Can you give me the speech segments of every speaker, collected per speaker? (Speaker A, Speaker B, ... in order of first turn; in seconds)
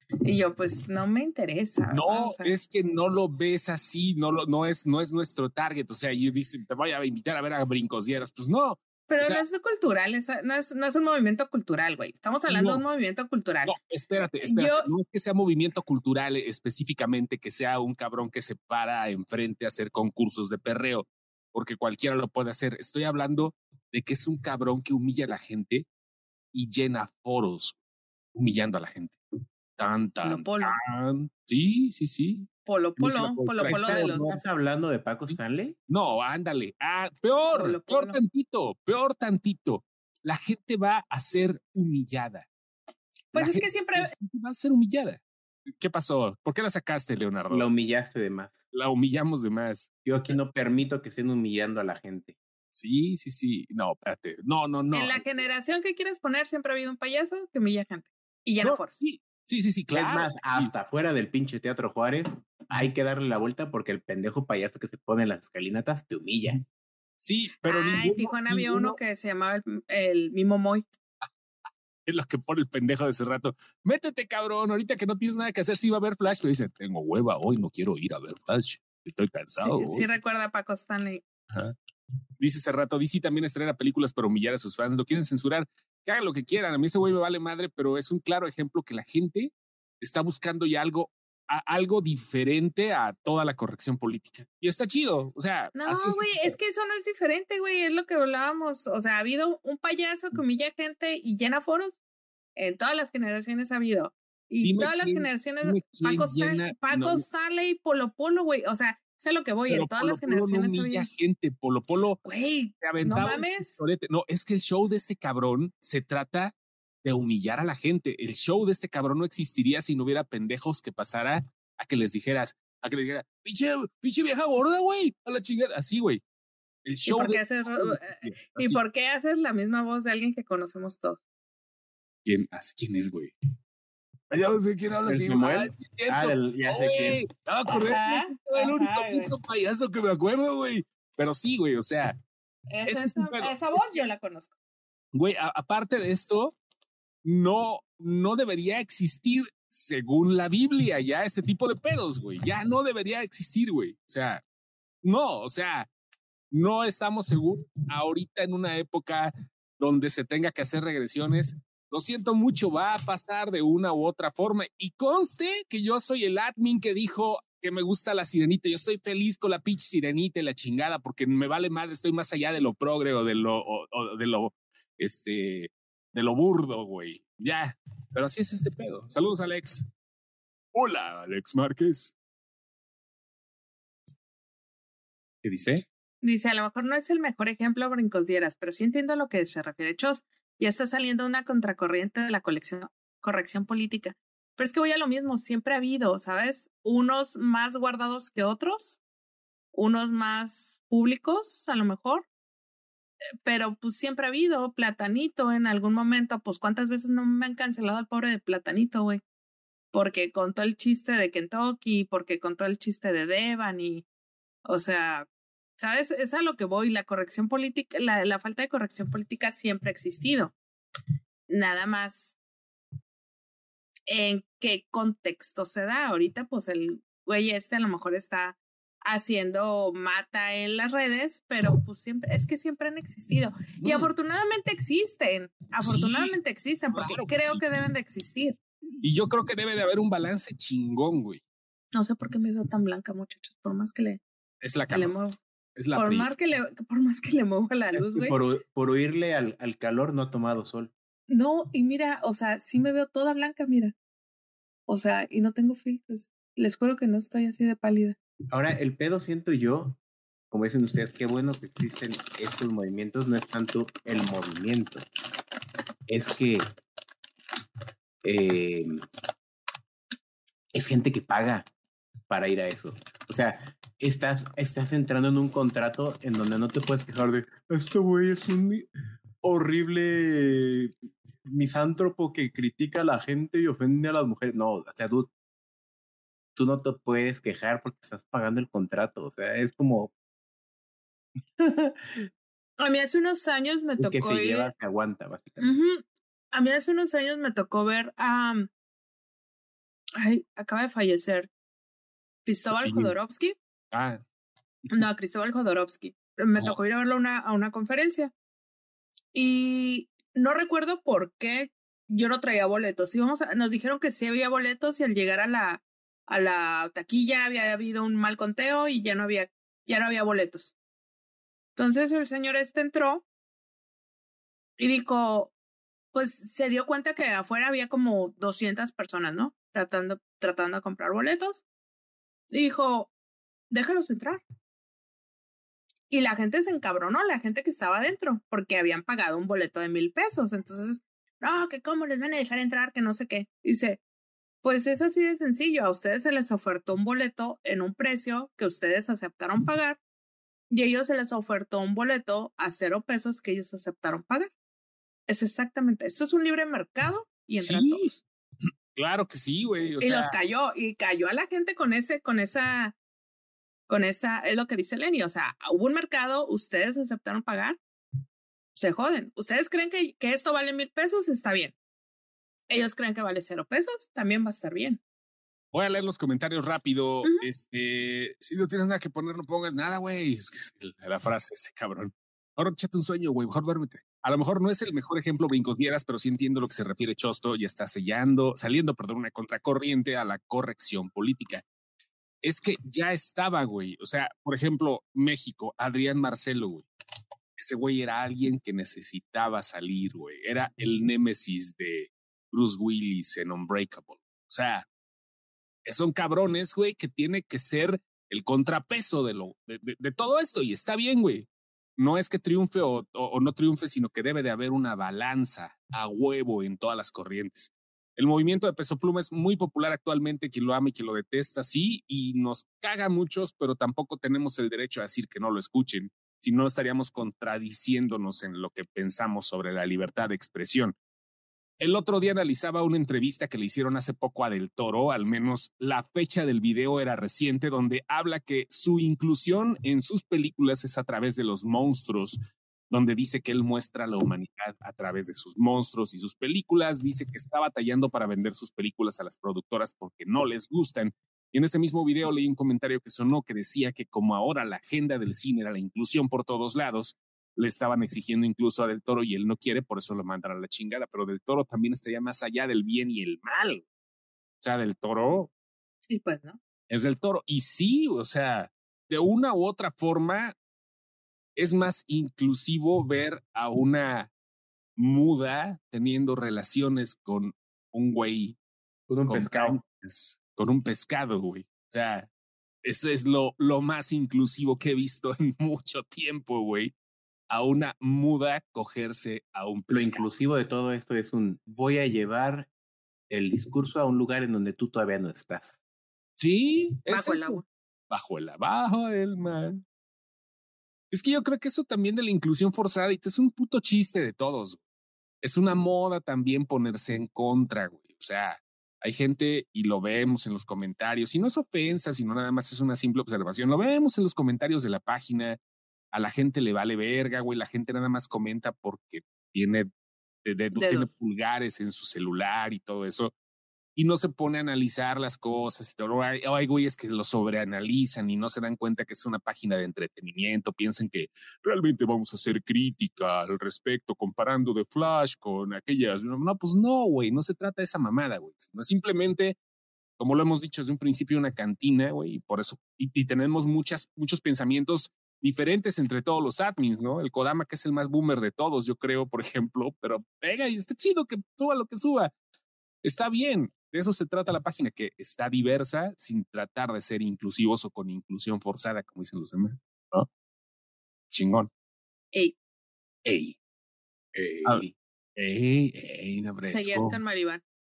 Speaker A: 0.2-2.5, 9.1-13.7, 14.4-14.9, 30.2-30.8, 32.6-34.3, 37.5-38.2, 43.3-44.1, 54.9-58.9, 67.6-70.8, 79.6-81.2, 95.7-102.0, 102.5-111.1, 112.2-113.8, 127.0-131.2, 137.7-139.3, 142.7-144.5, 186.2-199.0, 199.7-202.2, 203.4-209.2, 209.9-214.0, 214.6-215.3, 215.8-220.5, 221.5-222.3, 224.1-238.6, 241.9-244.2, 244.9-245.4, 245.9-248.3, 251.3-253.9, 254.9-258.1, 292.8-294.7, 295.6-298.7, 300.2-301.5, 302.4-303.6, 304.9-308.3, 309.3-320.7, 321.8-323.2, 324.8-325.5, 326.1-331.6, 332.5-333.1, 333.7-334.4, 336.1-344.0, 344.6-350.0, 350.7-354.5, 355.3-358.2, 360.0-362.9, 363.9-367.8, 368.8-371.7, 372.7-375.0, 466.1-466.6, 497.1-497.6, 520.7-521.1, 566.7-567.6
Speaker B: 1.9-9.4, 12.5-12.8, 13.6-25.9, 26.5-27.8, 28.3-29.2, 29.8-34.4, 35.9-42.5, 43.3-45.2, 45.8-47.7, 48.7-49.9, 52.7-55.2, 58.6-60.7, 67.2-69.0, 72.0-80.1, 82.4-96.6, 104.6-107.2, 109.7-112.2, 112.8-126.2, 126.8-128.8, 132.2-133.3, 134.3-142.2, 142.8-144.0, 145.1-146.6, 147.2-154.4, 155.0-155.9, 156.5-179.9, 180.7-182.1, 185.4-185.8, 233.8-234.1, 235.8-236.4, 236.9-237.6, 239.0-241.4, 244.6-245.2, 245.8-246.3, 302.7-303.1, 303.9-304.2, 357.6-358.1, 358.9-360.4, 375.7-391.6, 392.4-396.9, 397.6-404.9, 405.8-430.9, 431.8-463.8, 464.6-465.5, 466.9-470.5, 471.6-474.3, 475.0-478.6, 479.3-482.3, 482.8-486.9, 487.5-490.2, 496.4-499.8, 501.1-504.8, 505.4-515.6, 516.1-519.9, 520.4-523.3, 524.0-539.6, 540.2-552.3, 553.0-560.3, 561.3-561.7, 563.2-563.5, 565.4-567.2
Speaker C: 33.6-35.8, 47.5-48.6, 50.0-52.3, 59.9-66.6, 135.0-137.2, 247.9-250.9, 258.5-260.0, 260.5-265.0, 266.1-266.6, 268.2-269.0, 270.7-271.7, 272.3-278.9, 279.4-280.9, 281.4-285.3, 286.6-290.1, 291.6-292.3, 294.0-295.8, 479.1-479.8, 489.9-492.7, 493.3-495.8, 564.3-564.9